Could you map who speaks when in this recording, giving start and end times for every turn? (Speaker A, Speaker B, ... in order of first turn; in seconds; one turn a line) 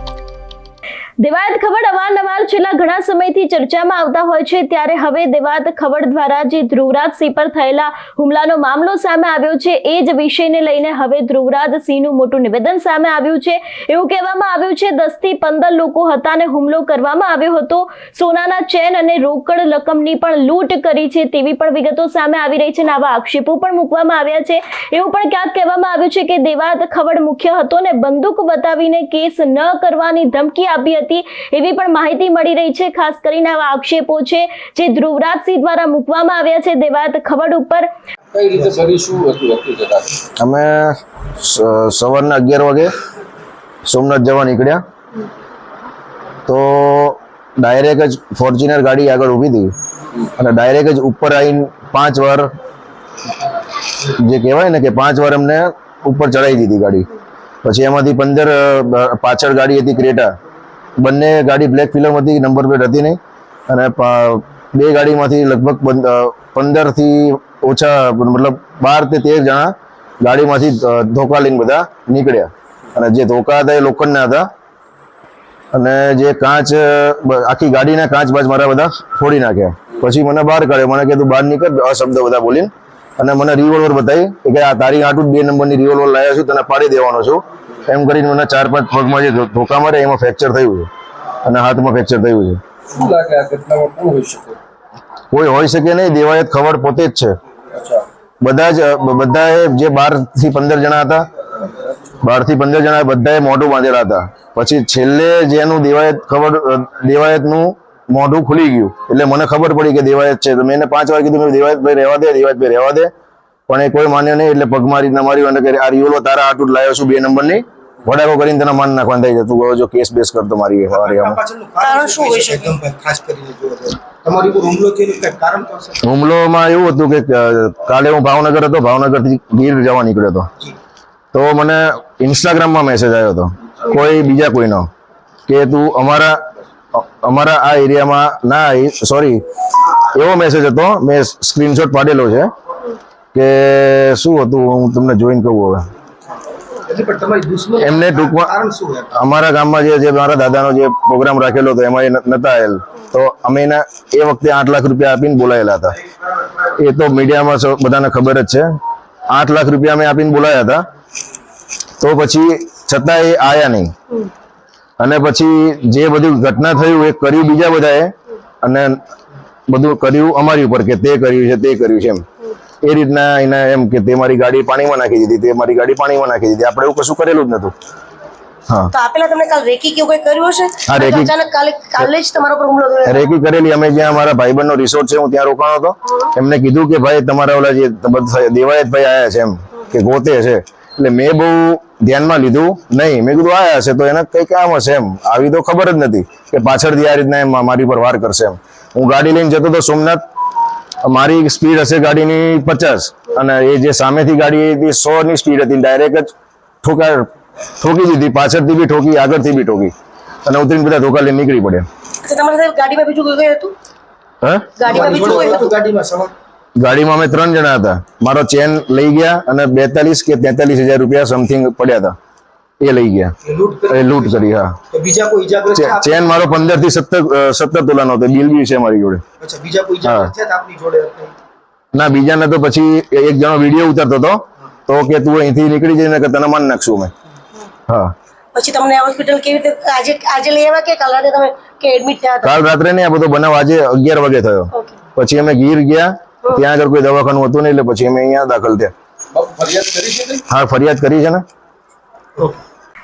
Speaker A: 1.2-37.9
Speaker B: 38.3-40.2
Speaker C: 40.4-42.9
Speaker C: 43.8-44.8
Speaker C: 46.5-49.7
Speaker C: 50.4-52.5
Speaker C: 54.0-57.1
Speaker C: 57.6-60.3
Speaker C: 61.0-74.5
Speaker C: 75.7-90.9
Speaker C: 91.4-92.6
Speaker B: 92.9-94.6
Speaker C: 95.3-97.3
Speaker B: 97.8-98.0
Speaker C: 98.4-101.2
Speaker C: 102.2-113.1
Speaker C: 113.7-121.3
Speaker D: 120.9-126.0
Speaker E: 121.8-122.8
Speaker C: 126.0-130.5
Speaker C: 131.3-134.9
Speaker C: 135.5-136.4
Speaker C: 136.9-142.5
Speaker C: 143.3-145.9
Speaker D: 146.8-149.1
Speaker C: 147.8-148.5
Speaker C: 149.1-156.0
Speaker C: 156.6-158.7
Speaker C: 159.3-160.8
Speaker C: 162.0-163.9
Speaker C: 165.0-169.0
Speaker C: 169.7-172.2
Speaker C: 172.8-177.7
Speaker E: 178.9-183.3
Speaker C: 180.9-181.3
Speaker C: 183.1-200.2
Speaker C: 201.0-206.3
Speaker C: 206.8-207.3
Speaker C: 207.8-209.9
Speaker C: 210.5-211.9
Speaker E: 212.2-213.7
Speaker C: 214.4-214.8
Speaker E: 214.8-215.7
Speaker D: 214.9-216.3
Speaker C: 216.8-222.2
Speaker C: 222.8-223.3
Speaker D: 223.4-226.4
Speaker C: 223.9-224.8
Speaker C: 225.7-229.2
Speaker D: 229.4-231.3
Speaker C: 230.0-230.3
Speaker C: 231.9-237.1
Speaker C: 237.9-238.1
Speaker E: 238.5-242.6
Speaker C: 242.4-248.9
Speaker B: 249.3-250.4
Speaker C: 250.5-251.4